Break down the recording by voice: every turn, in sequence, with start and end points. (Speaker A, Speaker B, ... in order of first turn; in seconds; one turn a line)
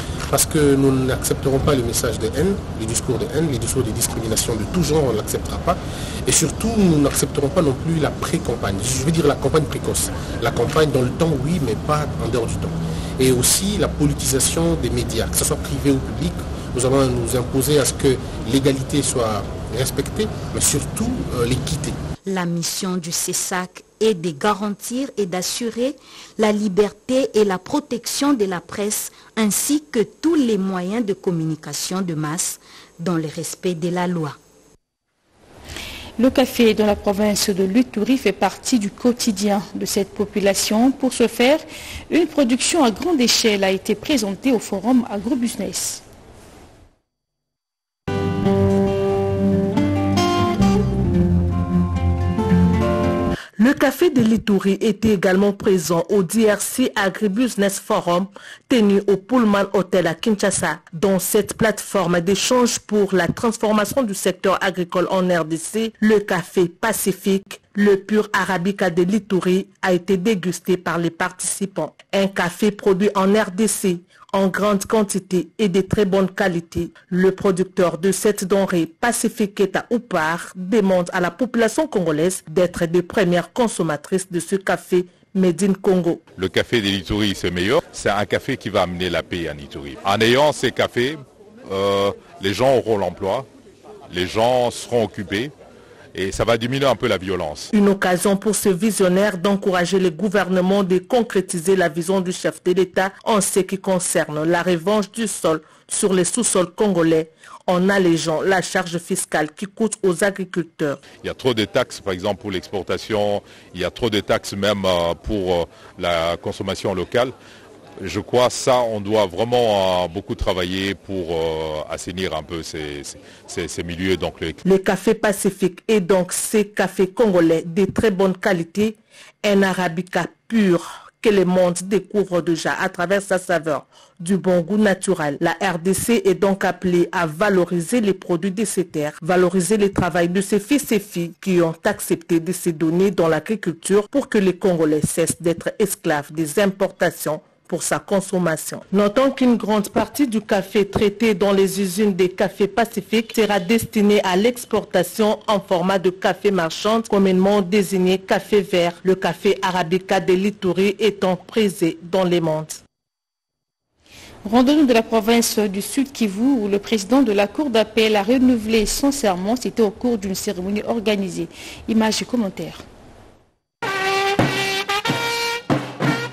Speaker A: 0.3-22.0
Speaker B: 22.2-34.4
Speaker C: 36.2-46.0
Speaker D: 53.6-86.2
Speaker E: 86.4-93.5
Speaker E: 94.1-95.5
Speaker E: 96.1-97.7
Speaker D: 97.7-111.0
Speaker E: 111.2-117.3
Speaker E: 118.0-124.6
Speaker D: 124.6-162.8
Speaker C: 164.4-172.8